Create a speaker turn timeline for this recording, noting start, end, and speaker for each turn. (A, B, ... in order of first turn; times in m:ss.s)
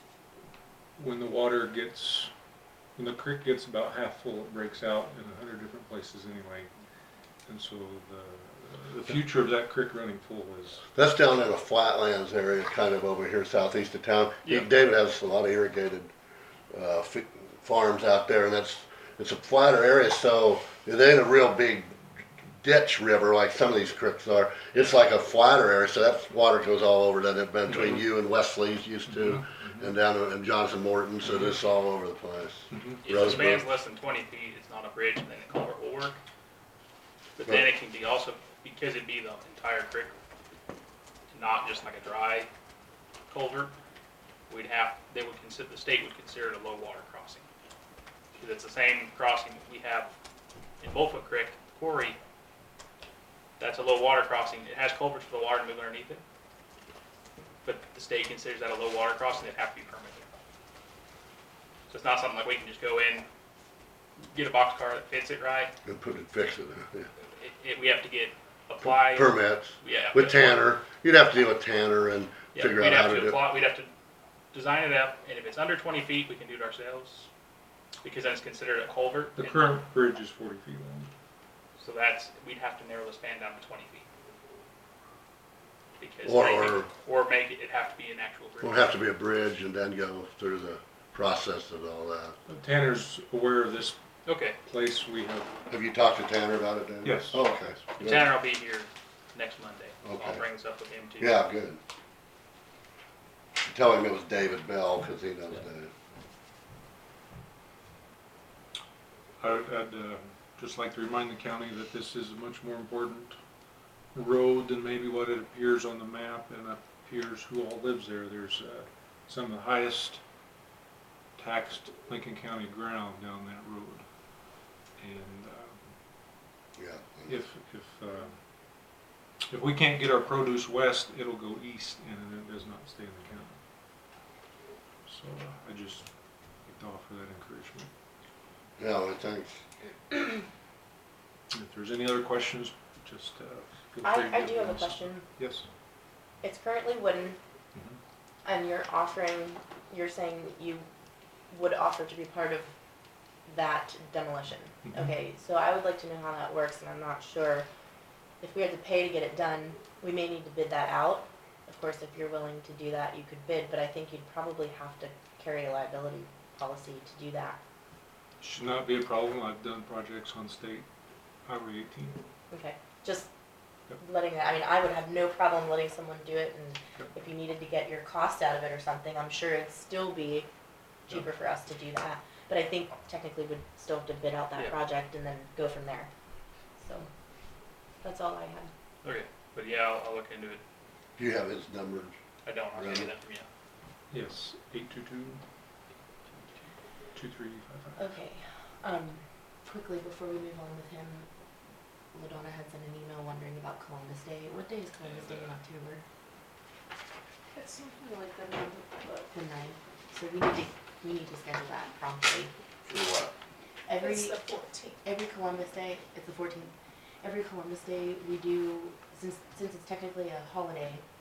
0:01.0-0:02.3 A
0:03.0-0:06.7 A
0:07.4-0:10.9 A
0:10.9-0:16.1 B
0:16.7-0:22.0 B
0:22.5-0:33.6 B
0:24.7-0:25.0 C
0:27.7-0:28.0 A
0:29.1-0:29.9 A
0:32.7-0:33.0 A
0:33.0-0:36.2 C
0:37.4-0:40.1 C
0:41.3-0:42.5 C
0:43.3-0:43.7 C
0:44.5-0:47.4 C
0:48.4-0:50.1 C
0:50.8-0:52.2 C
0:53.6-0:56.2 C
0:57.6-1:00.2 C
1:01.9-1:03.2 C
1:04.2-1:05.7 C
1:05.8-1:07.1 B
1:07.2-1:10.7 C
1:08.8-1:13.4 B
1:12.5-1:13.9 C
1:14.5-1:17.3 C
1:18.0-1:19.8 C
1:19.4-1:21.1 A
1:21.8-1:24.0 C
1:26.0-1:29.0 C
1:26.2-1:26.9 B
1:28.6-1:32.4 B
1:32.5-1:34.0 A
1:34.2-1:34.6 C
1:34.6-1:35.5 A
1:35.7-1:38.3 B
1:37.0-1:37.4 A
1:38.0-1:41.4 C
1:40.0-1:40.4 B
1:41.2-1:41.8 B
1:43.6-1:45.9 B
1:49.4-1:53.3 A
1:54.1-2:00.2 A
2:01.4-2:04.0 A
2:05.0-2:05.8 A
2:06.8-2:07.4 B
2:07.3-2:08.4 A
2:09.5-2:13.6 A
2:15.0-2:16.1 A
2:16.6-2:17.9 A
2:18.8-2:19.6 B
2:21.5-2:25.7 A
2:24.0-2:25.2 D
2:26.4-2:27.4 D
2:28.4-2:30.9 D
2:31.5-2:32.7 D
2:33.5-2:37.7 D
2:34.8-2:35.1 A
2:38.4-2:47.6 D
2:48.4-2:50.9 A
2:51.4-2:52.2 A
2:52.5-2:53.3 D
2:54.0-3:00.5 D
3:01.1-3:06.1 D
3:06.8-3:07.1 D
3:08.0-3:08.7 D
3:09.0-3:10.6 C
3:11.2-3:12.1 B
3:12.4-3:13.5 C
3:12.7-3:13.1 B
3:14.1-3:15.4 A
3:17.1-3:18.2 A
3:18.0-3:21.3 D
3:22.1-3:26.0 D
3:25.0-3:25.5 C
3:27.5-3:29.3 E
3:29.3-3:32.5 D
3:32.9-3:33.3 B
3:33.9-3:34.5 D
3:34.0-3:35.0 E
3:35.0-3:41.0 D